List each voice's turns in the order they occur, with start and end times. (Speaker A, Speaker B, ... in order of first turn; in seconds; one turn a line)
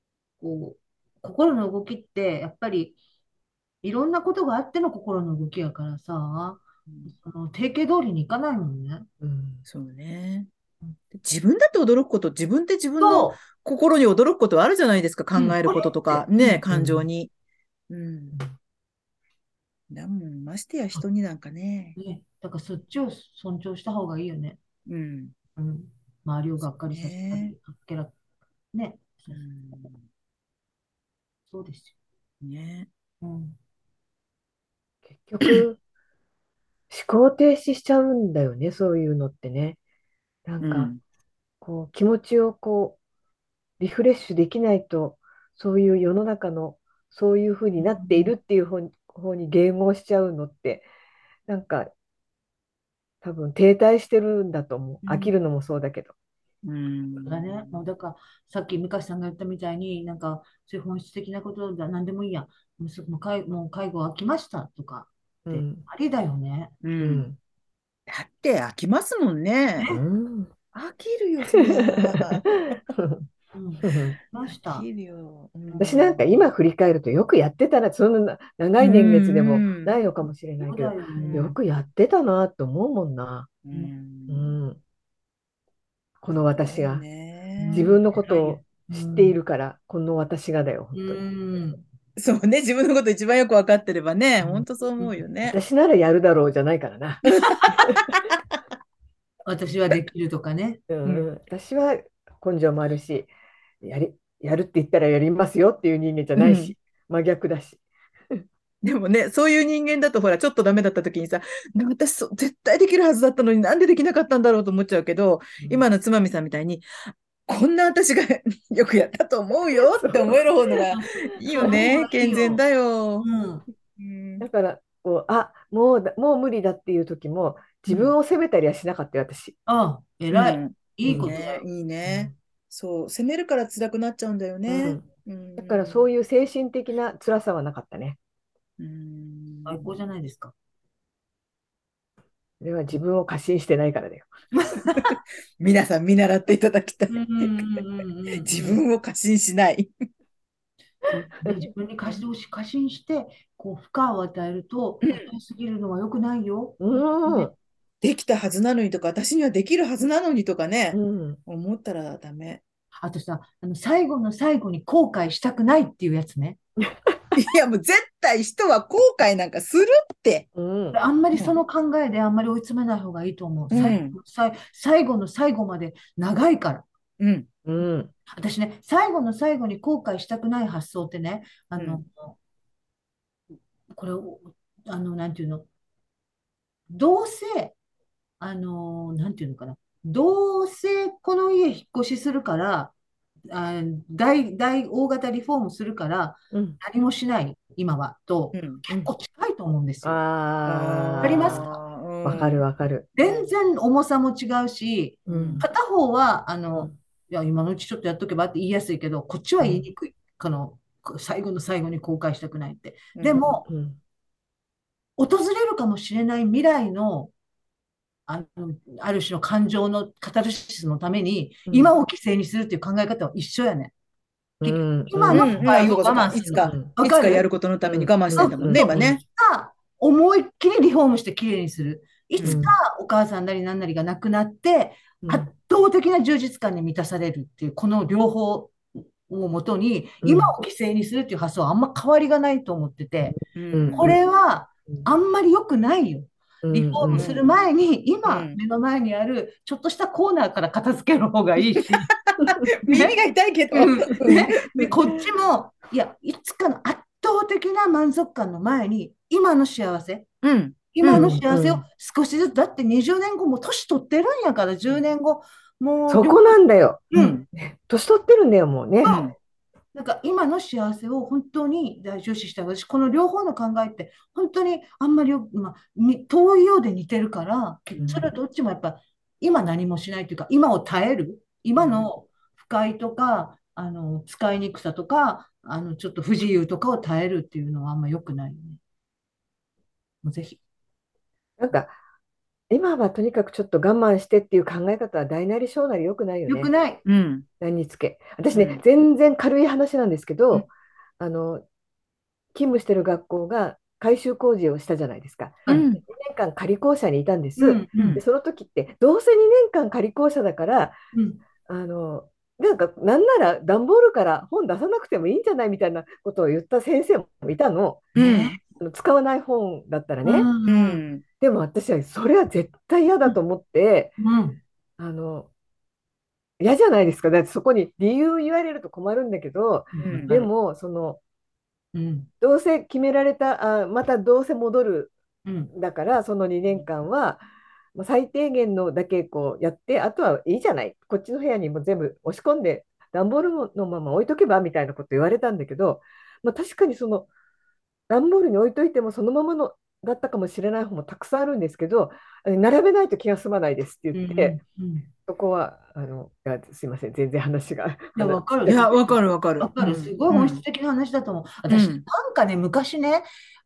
Speaker A: 0.4-3.0
Speaker A: 3.8-9.1
Speaker B: 6.9-7.1
Speaker C: 9.2-9.6
Speaker B: 9.7-10.5
Speaker B: 11.1-17.3
Speaker A: 13.0-13.4
Speaker A: 15.3-16.6
Speaker C: 16.7-17.1
Speaker B: 17.9-18.4
Speaker B: 19.9-21.9
Speaker A: 21.9-24.6
Speaker B: 24.9-25.3
Speaker A: 25.6-28.1
Speaker B: 26.6-27.5
Speaker A: 28.7-29.4
Speaker B: 29.3-30.0
Speaker A: 31.5-31.9
Speaker B: 32.4-32.9
Speaker A: 33.2-33.6
Speaker C: 35.1-35.8
Speaker C: 36.9-39.8
Speaker C: 40.5-40.9
Speaker B: 40.6-41.0
Speaker C: 41.6-43.0
Speaker C: 43.8-50.9
Speaker A: 47.8-48.3
Speaker C: 51.5-51.9
Speaker C: 53.2-56.1
Speaker A: 55.0-55.3
Speaker B: 56.6-57.8
Speaker A: 57.2-66.8
Speaker C: 65.5-65.8
Speaker B: 66.8-67.3
Speaker C: 67.0-67.4
Speaker B: 68.1-69.9
Speaker A: 69.8-70.0
Speaker C: 69.9-70.5
Speaker B: 70.7-72.7
Speaker C: 71.5-73.2
Speaker A: 73.5-74.8
Speaker C: 73.8-74.2
Speaker B: 74.5-76.4
Speaker A: 75.7-75.9
Speaker C: 75.8-83.6
Speaker B: 78.8-80.0
Speaker A: 80.6-81.5
Speaker B: 81.2-81.5
Speaker B: 83.6-84.5
Speaker C: 84.3-84.8
Speaker C: 86.2-87.0
Speaker B: 86.6-88.0
Speaker A: 87.6-89.3
Speaker C: 87.7-91.2
Speaker A: 90.9-91.8
Speaker B: 92.2-95.6
Speaker A: 94.5-95.2
Speaker C: 95.5-98.1
Speaker B: 97.3-98.0
Speaker A: 99.5-100.8
Speaker C: 100.9-103.3
Speaker C: 103.8-107.8
Speaker B: 106.4-106.7
Speaker B: 108.8-123.3
Speaker C: 119.7-120.8
Speaker A: 120.9-122.6
Speaker C: 121.5-122.4
Speaker A: 123.2-123.6
Speaker B: 124.0-124.5
Speaker C: 124.4-129.5
Speaker A: 129.7-131.6
Speaker B: 130.3-136.1
Speaker C: 131.0-131.3
Speaker C: 132.0-132.3
Speaker C: 134.7-135.0
Speaker C: 135.6-138.2
Speaker B: 138.8-139.9
Speaker A: 139.7-140.5
Speaker C: 142.6-144.3
Speaker A: 144.5-145.2
Speaker B: 145.6-147.8
Speaker A: 147.1-148.8
Speaker B: 148.4-149.9
Speaker A: 151.1-157.5
Speaker C: 156.8-157.5
Speaker B: 158.0-162.6
Speaker C: 160.9-161.4
Speaker A: 163.0-166.6
Speaker C: 166.8-167.3
Speaker B: 167.3-170.4
Speaker C: 170.5-171.0
Speaker A: 170.9-176.8
Speaker B: 173.7-174.2
Speaker B: 177.2-177.5
Speaker C: 177.6-178.1
Speaker A: 178.2-182.4
Speaker A: 183.9-185.7
Speaker A: 186.9-187.7
Speaker A: 188.4-192.9
Speaker A: 193.5-200.2
Speaker C: 196.5-196.8
Speaker B: 198.5-198.8
Speaker C: 200.0-203.1
Speaker B: 200.7-202.6
Speaker A: 201.2-201.7
Speaker A: 203.2-213.7
Speaker C: 205.3-205.6
Speaker B: 205.3-205.7
Speaker C: 209.6-209.8
Speaker B: 213.2-213.5
Speaker C: 213.7-214.0
Speaker A: 215.2-217.3
Speaker A: 218.3-223.9
Speaker C: 221.7-221.9
Speaker C: 224.6-225.7
Speaker A: 224.6-227.4
Speaker B: 225.3-229.2
Speaker C: 227.8-229.1
Speaker A: 228.3-243.4
Speaker C: 232.4-232.7
Speaker C: 235.2-235.5
Speaker C: 240.2-240.5
Speaker B: 243.5-244.1
Speaker C: 243.7-244.2
Speaker A: 243.9-252.1
Speaker C: 246.6-247.3
Speaker B: 247.1-247.7
Speaker B: 248.2-248.6
Speaker B: 252.3-254.9
Speaker A: 252.8-253.2
Speaker A: 253.7-260.3
Speaker B: 260.4-261.4
Speaker A: 260.9-266.6
Speaker C: 261.1-261.8
Speaker C: 266.1-269.1
Speaker A: 267.1-267.4
Speaker B: 267.1-267.4
Speaker A: 269.0-269.3
Speaker B: 269.0-269.3
Speaker A: 269.9-288.8
Speaker C: 278.0-278.3
Speaker A: 290.2-290.6
Speaker C: 291.6-291.9
Speaker C: 292.7-296.7
Speaker A: 296.5-297.0
Speaker B: 297.0-297.4
Speaker C: 297.6-300.7
Speaker B: 298.5-298.8
Speaker C: 301.2-301.6
Speaker C: 302.5-311.0
Speaker B: 305.7-306.0
Speaker A: 307.6-308.2
Speaker B: 307.9-308.2
Speaker A: 311.1-311.4
Speaker C: 311.6-320.5
Speaker A: 318.1-318.6
Speaker B: 318.1-318.6
Speaker A: 320.2-321.0
Speaker B: 320.6-321.2
Speaker C: 321.4-324.1
Speaker A: 324.2-324.6
Speaker C: 325.0-325.5
Speaker C: 326.6-331.2
Speaker A: 329.9-330.5
Speaker B: 330.0-330.3
Speaker A: 331.9-332.3
Speaker C: 332.4-335.1
Speaker A: 335.4-335.7
Speaker C: 335.7-337.4
Speaker C: 337.9-347.3
Speaker C: 348.1-354.6
Speaker A: 354.1-355.1
Speaker C: 355.3-358.8
Speaker A: 358.1-363.2
Speaker B: 358.6-360.6
Speaker B: 361.7-362.0